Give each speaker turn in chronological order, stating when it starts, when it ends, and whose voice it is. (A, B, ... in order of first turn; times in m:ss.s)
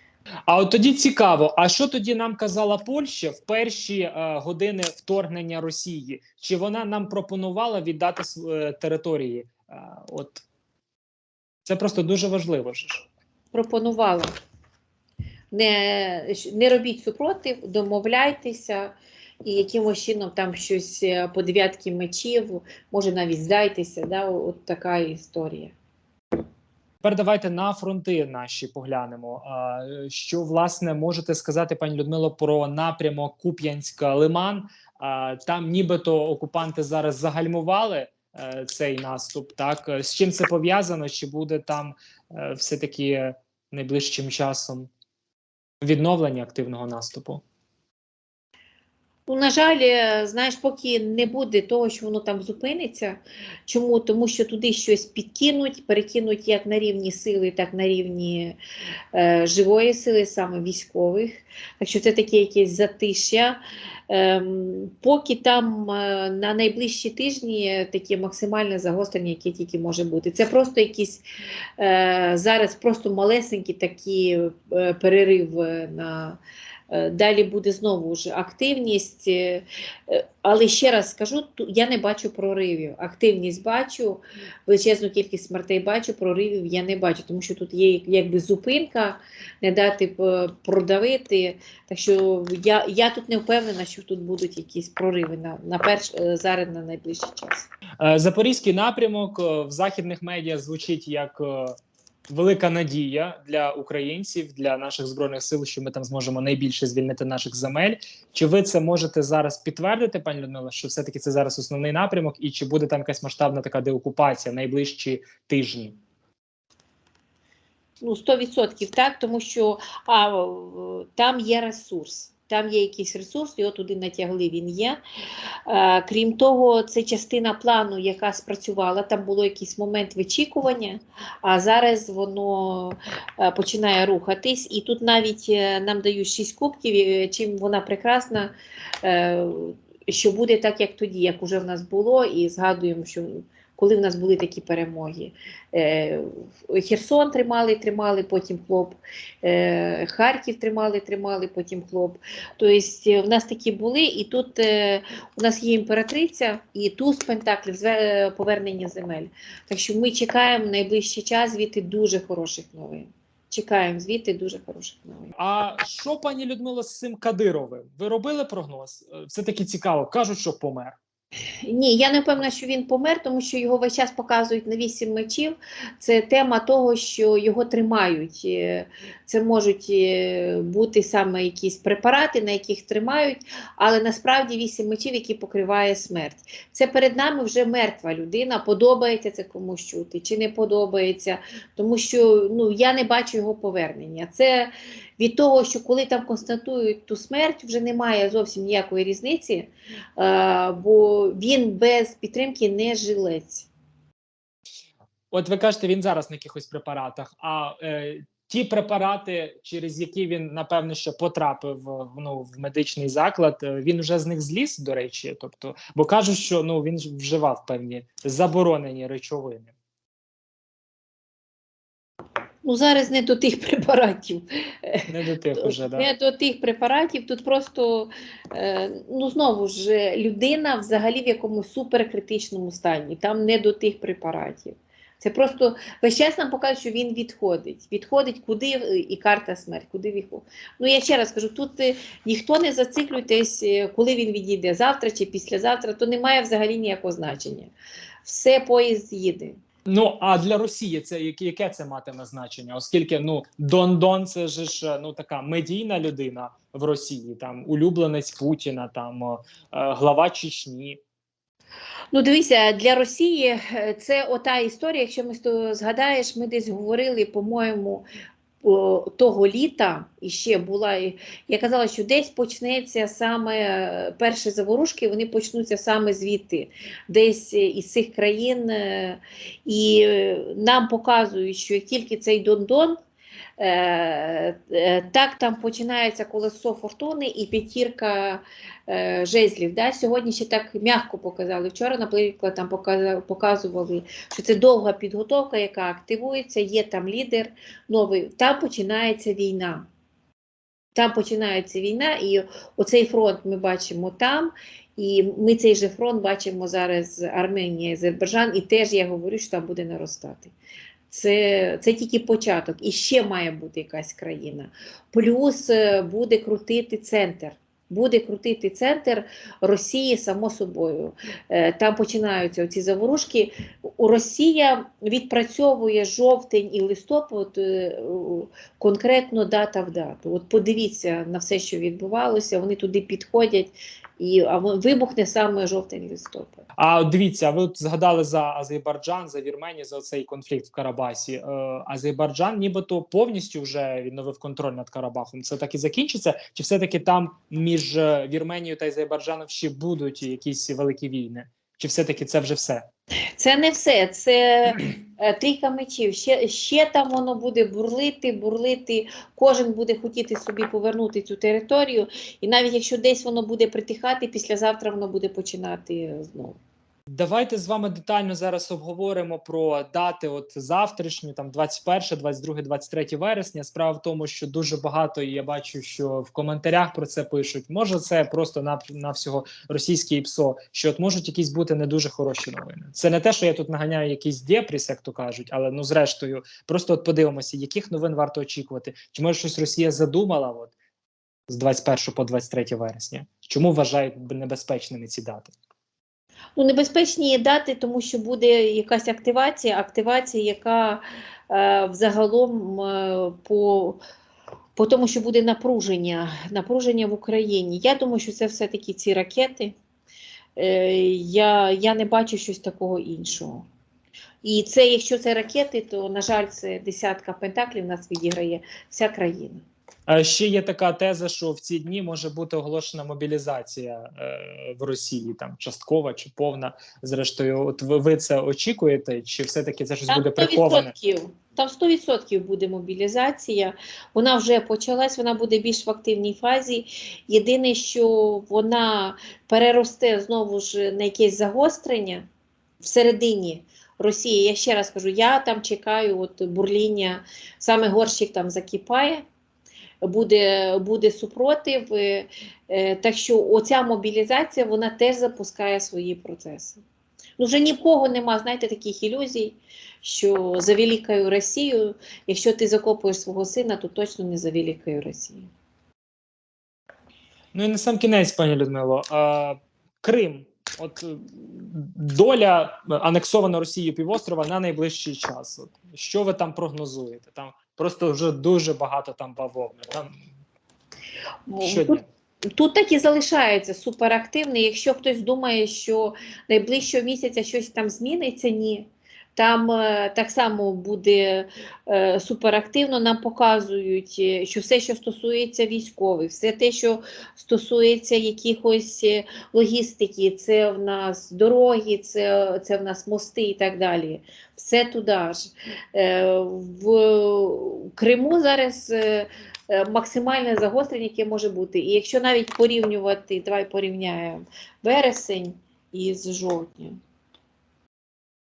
0:00.5-0:10.4 A
0:11.6-0:13.1 A
0:13.5-0:14.3 B
0:15.5-0:25.7 B
0:27.0-0:44.9 A
0:45.8-0:47.4 A
0:49.3-0:58.6 B
0:59.1-1:11.2 B
1:11.8-1:37.7 B
1:38.0-1:41.8 A
1:42.3-1:56.0 A
1:58.0-2:05.0 B
2:05.7-2:45.3 B
2:45.3-2:51.0 A
2:51.6-3:23.7 B
3:25.3-3:39.7 A
3:42.6-4:07.7 B
3:45.1-3:46.1 A
4:08.2-4:09.6 B
4:09.9-4:21.0 A
4:22.1-4:28.0 B
4:28.6-4:43.0 B
4:43.6-4:59.9 B
5:00.9-5:10.5 B
5:11.1-5:36.6 B
5:36.8-5:52.8 A
5:53.4-6:06.6 B
6:07.1-6:30.7 A
6:31.5-6:35.5 A
6:36.6-6:44.0 B
6:44.8-6:49.7 B
6:50.6-6:53.6 B
6:54.4-6:59.6 B
7:00.1-7:10.9 A
7:10.1-7:22.2 B
7:22.8-7:29.2 B
7:30.0-7:36.8 B
7:37.4-7:45.5 B
7:47.5-8:00.2 A
8:01.5-8:02.0 B
8:01.6-8:02.0 A
8:02.5-8:37.0 B